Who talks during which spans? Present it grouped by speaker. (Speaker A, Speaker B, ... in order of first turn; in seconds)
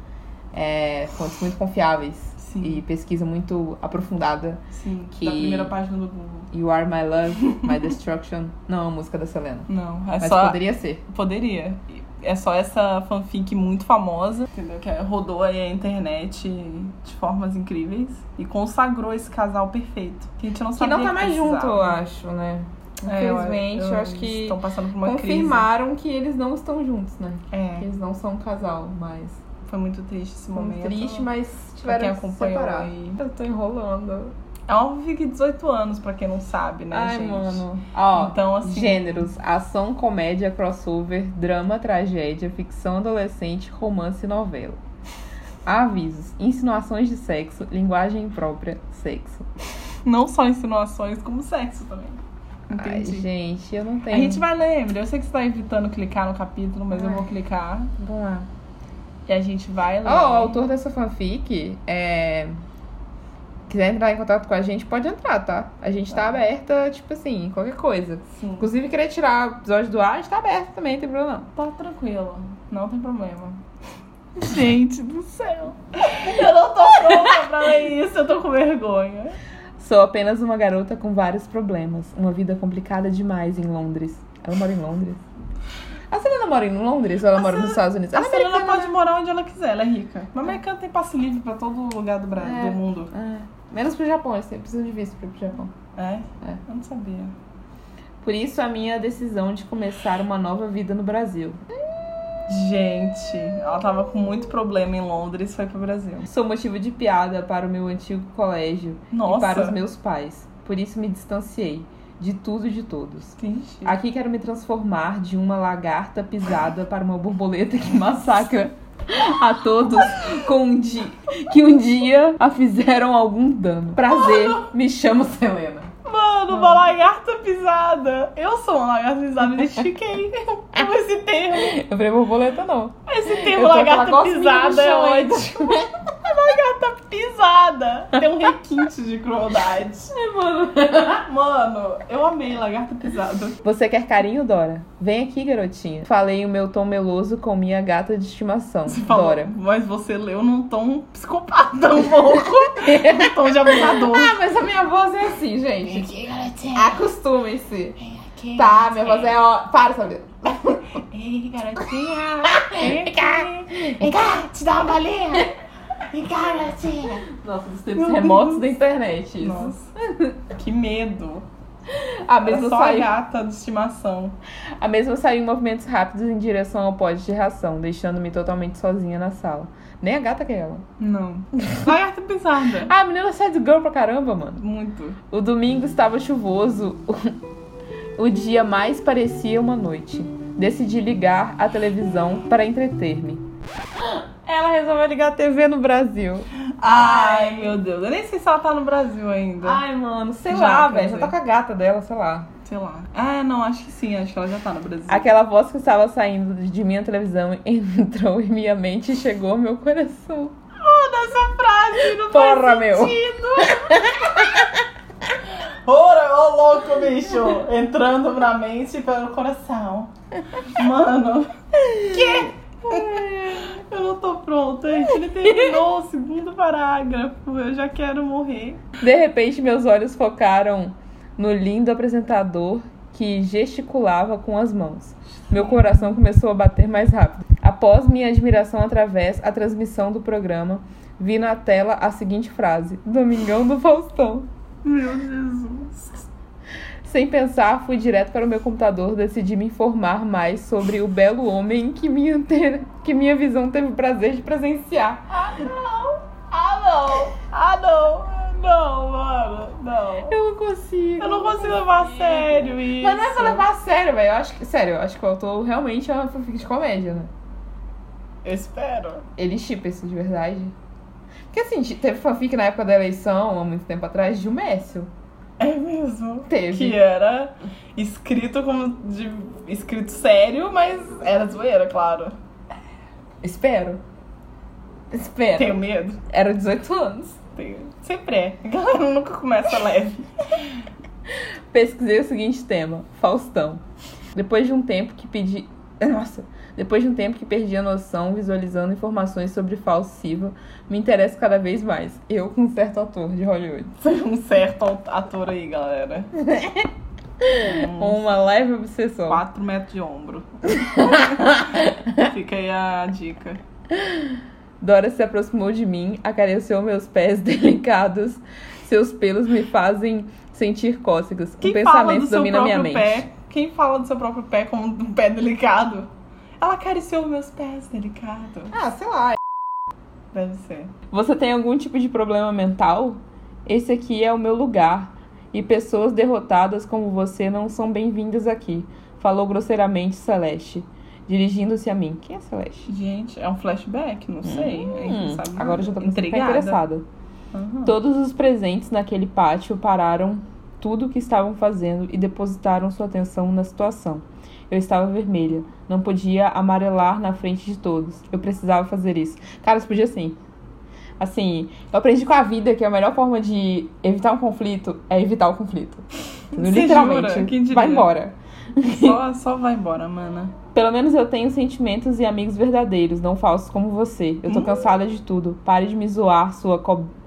Speaker A: 0.5-5.7, 6.5-9.7, 10.2-11.0, 20.8-29.4, 30.5-34.3, 36.9-44.8, 45.6-49.5, 52.7-54.4, 56.9-57.3, 58.0-58.5, 60.0-62.5, 63.7-71.5, 79.8-85.2, 86.1-89.0, 92.4-95.7, 98.2-101.6, 106.2-125.9, 126.5-126.9, 131.5-135.9, 140.1-141.2, 143.6-149.5, 152.4-156.1, 156.7-158.0, 158.5-160.8, 162.4-164.4, 167.0-170.4, 171.9-173.1, 174.8-180.8, 182.8-184.6, 185.3-187.4, 188.2-193.4, 194.0-197.8, 199.6-202.5, 205.1-210.5, 212.2-214.9, 221.8-223.7, 229.0-244.5, 247.0-255.4, 260.3-267.3, 269.4-270.7, 271.5-275.1, 276.5-277.0, 283.4-284.0, 285.1-287.4, 291.7-293.8, 294.3-303.9, 306.4-306.9, 307.4-309.4, 310.7-312.3, 313.9-323.2, 328.7-329.4, 331.1-342.9, 344.4-347.1, 347.8-360.4, 361.2-369.2, 370.7-377.1
Speaker B: 2.4-2.8, 4.7-6.5, 7.4-7.8, 9.7-22.0, 23.0-25.6, 27.5-27.9, 29.6-31.3, 31.8-33.2, 34.7-39.2, 50.0-53.3, 54.1-57.9, 59.2-60.6, 68.4-68.7, 71.5-73.6, 74.4-79.4, 87.3-93.1, 96.0-97.3, 102.5-106.3, 109.1-109.8, 113.4-114.0, 124.0-124.7, 126.0-131.8, 133.1-140.1, 141.1-143.6, 148.9-154.4, 155.8-157.1, 158.0-159.4, 161.0-165.5, 166.1-167.2, 167.9-168.7, 169.4-169.9, 170.5-171.4, 172.4-174.4, 181.0-182.9, 184.6-185.2, 196.8-199.8, 200.5-201.3, 202.6-205.3, 210.8-214.5, 215.8-221.5, 222.1-228.8, 235.5-236.0, 244.8-246.2, 255.3-260.4, 261.2-263.6, 268.4-269.3, 275.6-282.3, 285.6-286.2, 287.6-290.8, 304.0-306.3, 307.5-308.2, 309.3-313.6, 321.6-328.7, 330.3-330.9, 342.9-346.8, 347.5-347.9, 366.5-368.1, 368.8-370.6, 374.5-374.8